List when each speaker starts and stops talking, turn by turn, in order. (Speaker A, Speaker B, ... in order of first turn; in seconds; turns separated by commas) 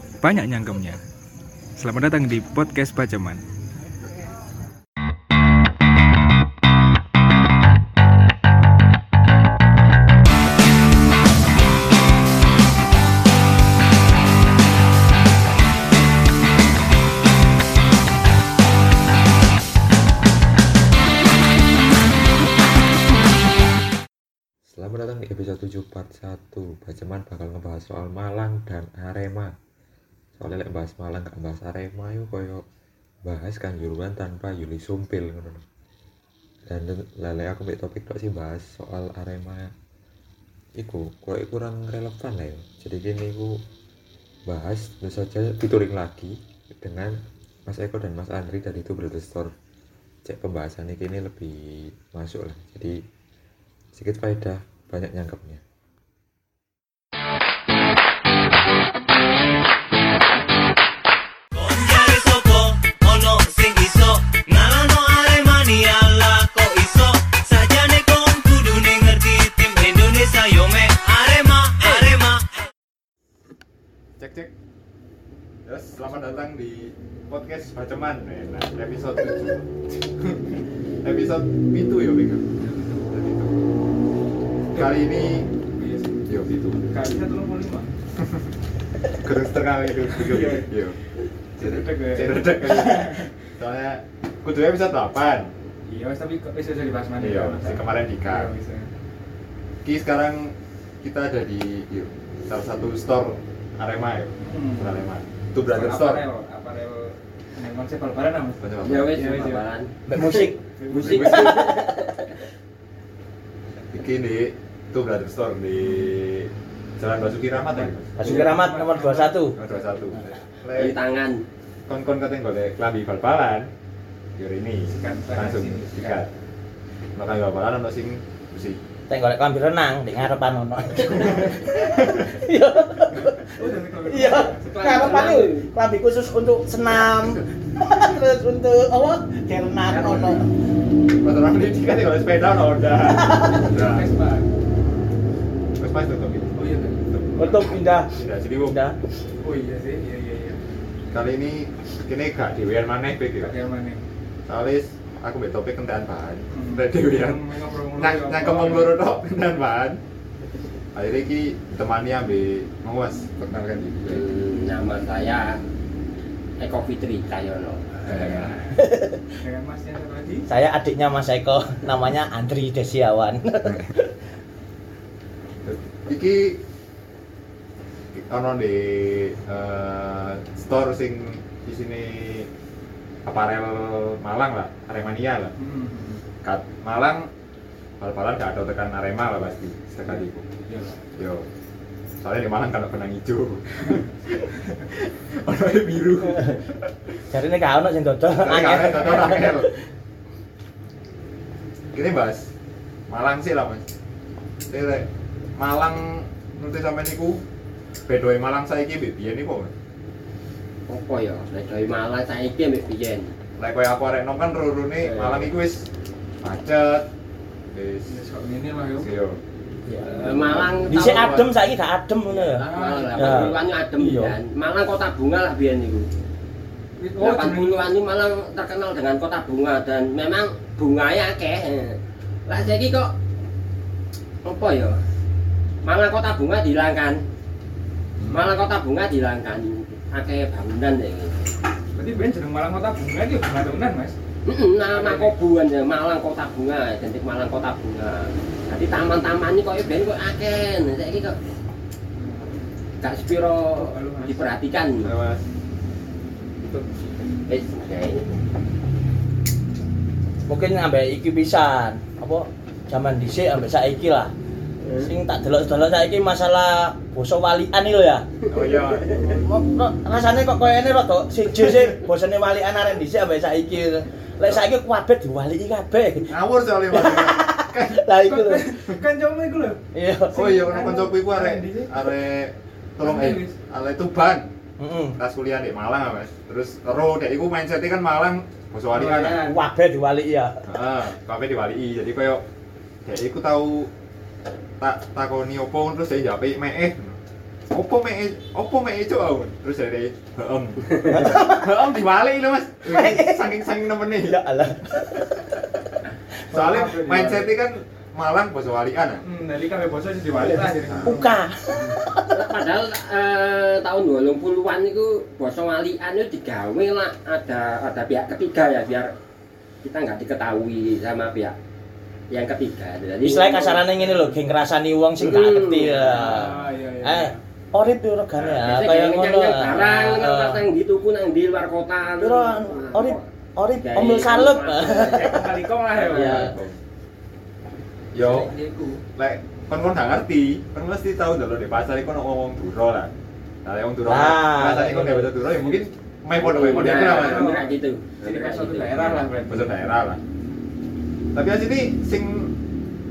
Speaker A: 0.2-1.0, Speaker A: 1.8-3.4, Speaker B: 24.7-29.5, Speaker B: 30.4-32.6, Speaker B: 33.2-35.6, Speaker B: 36.7-39.7, Speaker B: 40.8-43.6, Speaker B: 44.5-49.5, Speaker B: 50.2-51.6, Speaker B: 52.1-53.0, Speaker B: 53.9-55.6, Speaker C: 61.6-72.6, Speaker D: 74.2-74.5, Speaker D: 75.7-82.5, Speaker A: 82.6-83.1, Speaker D: 83.1-83.6, Speaker A: 84.7-86.2, Speaker D: 84.7-85.5, Speaker D: 86.3-86.8, Speaker A: 86.9-87.9, Speaker D: 89.2-91.0, Speaker A: 90.2-90.7, Speaker A: 91.6-93.3, Speaker D: 91.6-95.5, Speaker A: 95.9-98.9, Speaker D: 97.2-98.5, Speaker D: 99.8-106.3, Speaker A: 104.4-105.0, Speaker A: 105.7-109.6, Speaker D: 108.6-109.3, Speaker E: 108.8-110.5, Speaker F: 110.1-112.0, Speaker A: 110.8-111.3, Speaker D: 110.9-111.7, Speaker E: 111.1-112.3, Speaker D: 113.9-118.1, Speaker A: 115.8-116.1, Speaker A: 117.5-119.7, Speaker F: 118.2-119.6, Speaker D: 119.6-121.0, Speaker E: 120.7-121.4, Speaker D: 121.9-123.7, Speaker D: 124.4-126.3, Speaker A: 124.9-126.2, Speaker D: 127.2-128.8, Speaker F: 129.1-140.4, Speaker D: 130.9-132.3, Speaker A: 133.6-135.0, Speaker E: 134.6-135.7, Speaker D: 139.9-140.4, Speaker D: 141.1-144.1, Speaker F: 143.2-143.7, Speaker A: 143.7-144.5, Speaker D: 145.8-146.6, Speaker A: 146.6-147.0, Speaker D: 147.1-148.8, Speaker F: 147.4-148.1, Speaker F: 148.7-148.9, Speaker A: 149.4-150.6, Speaker D: 151.1-153.6, Speaker A: 153.4-154.0, Speaker D: 154.5-157.4, Speaker A: 156.5-159.0, Speaker D: 158.0-160.0, Speaker D: 160.9-164.2, Speaker E: 164.1-165.6, Speaker E: 166.6-168.5, Speaker D: 168.0-168.6, Speaker F: 168.7-169.3, Speaker A: 169.4-170.5, Speaker F: 170.5-174.1, Speaker D: 175.6-176.6, Speaker D: 178.1-182.5, Speaker D: 183.2-185.5, Speaker A: 185.6-186.2, Speaker D: 186.4-187.3, Speaker D: 188.0-190.4, Speaker A: 190.7-191.0, Speaker D: 191.2-191.5, Speaker D: 192.2-196.9, Speaker F: 197.3-199.7, Speaker D: 198.4-199.7, Speaker D: 201.9-202.5, Speaker D: 203.1-203.8, Speaker D: 204.7-207.4, Speaker D: 208.1-209.7, Speaker E: 210.9-213.3, Speaker D: 213.6-215.9, Speaker E: 215.0-215.5, Speaker D: 216.4-217.1, Speaker D: 217.7-218.2, Speaker A: 218.1-219.1, Speaker D: 219.0-219.4, Speaker E: 220.0-221.4, Speaker D: 220.1-221.5, Speaker F: 220.9-224.4, Speaker E: 222.3-226.1, Speaker A: 222.6-223.6, Speaker A: 227.0-227.8, Speaker E: 227.2-233.1, Speaker E: 234.4-235.0, Speaker E: 235.8-237.2, Speaker D: 238.2-238.4, Speaker E: 238.3-241.4, Speaker A: 241.9-244.2, Speaker E: 244.4-251.4, Speaker A: 244.9-245.3, Speaker A: 252.2-252.6, Speaker E: 253.0-255.1, Speaker A: 253.8-254.4, Speaker D: 255.0-255.4, Speaker E: 257.5-258.2, Speaker F: 260.5-264.3, Speaker E: 264.8-265.1, Speaker F: 265.0-268.3, Speaker D: 268.5-269.2, Speaker E: 268.5-269.4, Speaker F: 269.3-276.4, Speaker D: 276.3-278.1, Speaker F: 276.9-278.7, Speaker A: 278.2-279.8, Speaker F: 279.9-280.8, Speaker A: 280.3-282.1, Speaker D: 280.3-284.5, Speaker A: 283.0-283.6, Speaker F: 284.8-285.2, Speaker D: 285.2-289.4, Speaker F: 289.3-290.6, Speaker D: 290.7-292.4, Speaker D: 293.1-293.9, Speaker D: 294.8-297.2, Speaker D: 297.7-304.4, Speaker F: 301.1-301.7, Speaker F: 302.9-303.6, Speaker F: 304.2-305.3, Speaker D: 306.5-309.2, Speaker A: 306.5-307.5, Speaker A: 309.2-311.9, Speaker D: 310.9-311.2, Speaker F: 311.1-312.5, Speaker E: 312.3-319.1, Speaker E: 319.8-321.6, Speaker E: 322.3-323.8, Speaker F: 323.2-330.7, Speaker A: 323.9-324.4, Speaker E: 325.2-326.3, Speaker A: 326.0-327.4, Speaker E: 328.5-333.2, Speaker F: 332.2-335.5, Speaker E: 333.8-335.4, Speaker A: 334.9-336.5, Speaker E: 335.9-336.5, Speaker F: 336.0-336.6, Speaker D: 336.3-336.8, Speaker D: 338.1-338.5, Speaker A: 338.2-339.0, Speaker D: 339.2-343.1, Speaker D: 343.6-347.6, Speaker F: 344.1-345.3, Speaker A: 345.4-345.8, Speaker E: 346.4-349.3, Speaker A: 346.7-349.7, Speaker D: 349.5-350.2, Speaker D: 351.3-352.6